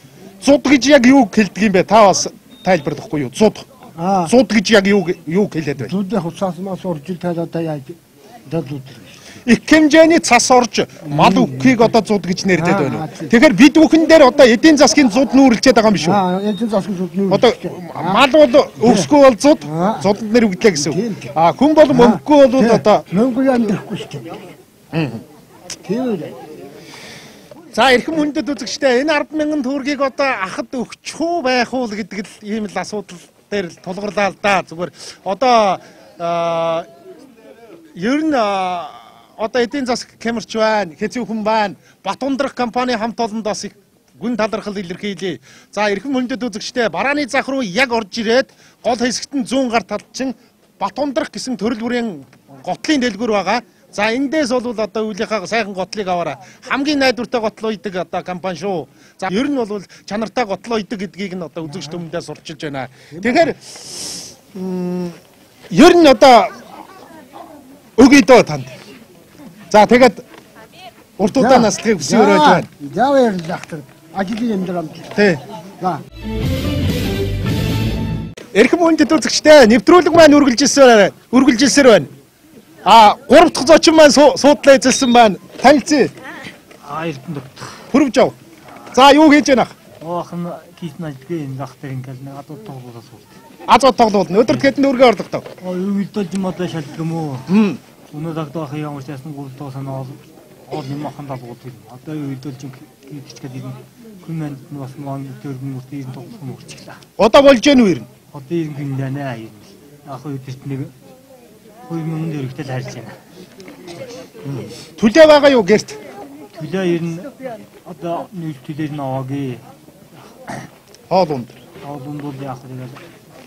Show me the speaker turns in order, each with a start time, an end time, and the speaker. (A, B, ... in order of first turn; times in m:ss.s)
0:00.4-0:03.7 A
0:03.9-0:04.3 B
0:04.2-0:05.9 A
0:05.8-0:09.2 B
0:09.4-0:16.2 A
0:11.1-0:11.9 B
0:12.5-0:13.3 B
0:16.0-0:18.2 B
0:17.3-0:23.0 A
0:18.8-0:19.1 B
0:19.6-0:20.1 B
0:20.7-0:21.3 B
0:21.9-0:24.5 B
0:24.9-0:25.2 A
0:25.8-0:26.4 B
0:27.7-0:36.9 A
0:38.0-1:05.2 A
1:01.7-1:02.0 B
1:03.1-1:03.6 B
1:05.7-1:06.7 A
1:08.0-1:08.7 A
1:09.7-1:10.2 A
1:11.2-1:12.7 A
1:11.3-1:15.2 B
1:15.2-1:15.4 A
1:18.5-1:22.1 A
1:22.8-1:26.1 A
1:26.8-1:27.8 C
1:27.9-1:28.4 A
1:28.9-1:29.8 A
1:30.0-1:33.3 C
1:33.7-1:35.4 A
1:35.6-1:37.5 C
1:37.5-1:37.8 A
1:38.1-1:47.0 C
1:47.2-1:48.1 A
1:48.3-1:50.9 C
1:51.9-1:53.2 C
1:54.4-1:56.0 A
1:56.5-1:57.3 C
1:57.8-1:59.6 C
2:01.1-2:01.6 A
2:01.8-2:03.0 C